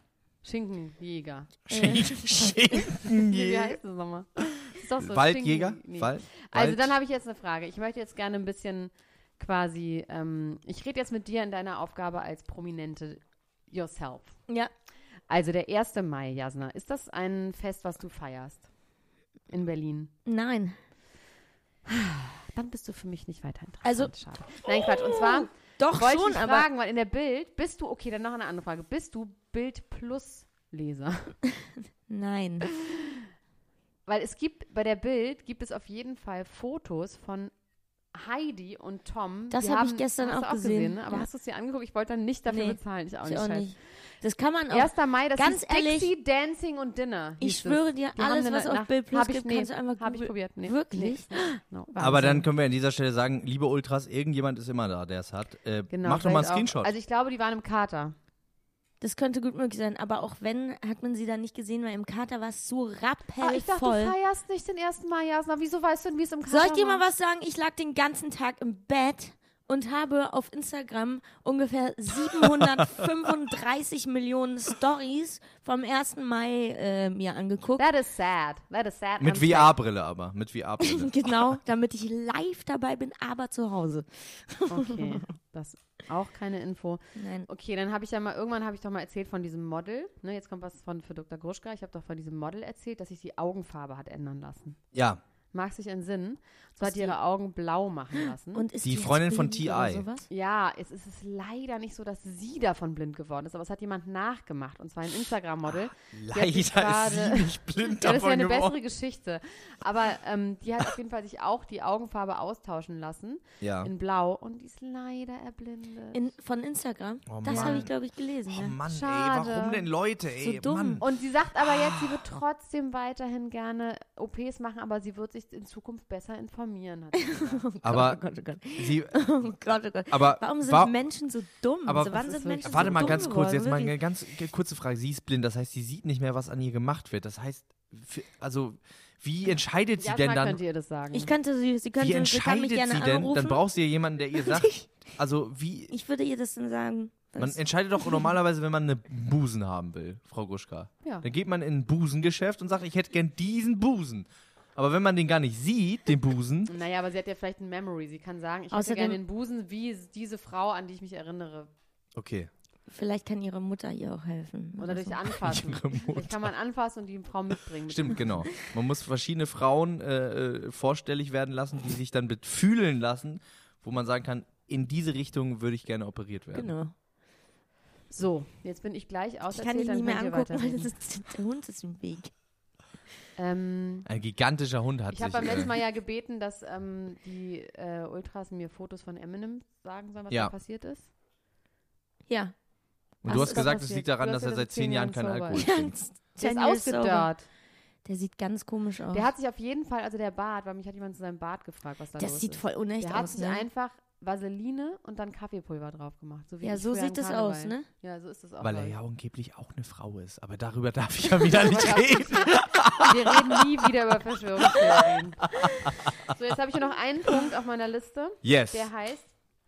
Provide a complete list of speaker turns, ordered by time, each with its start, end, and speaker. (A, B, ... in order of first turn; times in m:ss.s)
0:00.4-0:01.5 A
0:01.7-0:03.8 B
0:01.7-0:02.5 C
0:03.0-0:14.4 A
0:05.0-0:06.9 B
0:15.3-0:18.7 A
0:19.5-0:20.1 A
0:20.3-0:20.8 C
0:21.9-0:31.4 A
0:23.8-0:24.1 C
0:24.6-0:26.7 C
0:31.6-0:32.7 C
0:34.1-0:37.5 A
0:38.1-0:43.7 A
0:39.5-0:41.3 C
0:42.5-0:46.1 C
0:44.7-0:52.5 A
0:47.4-0:51.6 C
0:52.0-0:56.9 B
0:55.9-0:58.2 A
0:59.0-1:04.2 C
1:03.4-1:07.0 A
1:06.5-1:17.8 C
1:17.8-1:19.7 A
1:19.2-1:21.3 B
1:20.8-1:25.2 C
1:24.7-1:34.8 A
1:27.2-1:27.5 C
1:34.9-1:35.2 B
1:35.5-1:38.6 A
1:36.8-1:37.2 C
1:38.5-1:40.3 C
1:38.8-1:40.0 B
1:40.3-1:56.2 A
1:46.1-1:48.8 B
1:53.6-1:53.9 B
1:56.1-1:58.8 C
1:57.3-1:57.9 B
1:57.4-1:57.9 A
1:58.5-2:01.0 B
1:58.9-1:59.9 A
2:00.4-2:01.0 C
2:01.0-2:07.6 A
2:07.2-2:13.9 C
2:07.8-2:08.2 B
2:08.8-2:09.5 B
2:10.1-2:10.9 B
2:11.9-2:20.6 B
2:12.1-2:13.3 A
2:20.0-2:21.3 A
2:21.1-2:23.6 C
2:22.0-2:25.9 B
2:24.4-2:24.9 C
2:25.9-2:28.3 C
2:27.4-2:36.7 B
2:36.7-2:41.7 A
2:38.7-2:39.2 C
2:42.2-2:42.5 B
2:42.9-2:45.2 C
2:44.8-2:48.5 A
2:45.4-2:46.5 B
2:47.9-2:56.7 B
2:56.5-2:56.9 C
2:58.1-3:00.9 A
2:59.5-3:02.3 C
3:03.4-3:04.1 A
3:04.1-3:05.7 B
3:05.1-3:11.1 A
3:12.3-3:12.5 C
3:13.2-3:13.8 C
3:13.2-3:16.0 B
3:13.3-3:15.7 A
3:15.6-3:17.3 C
3:16.4-3:17.5 A
3:18.0-3:19.3 C
3:19.1-3:29.0 A
3:22.2-3:23.7 C
3:26.6-3:27.9 C
3:28.6-3:33.6 B
3:31.3-3:39.3 A
3:34.7-3:35.0 B
3:38.4-3:38.9 B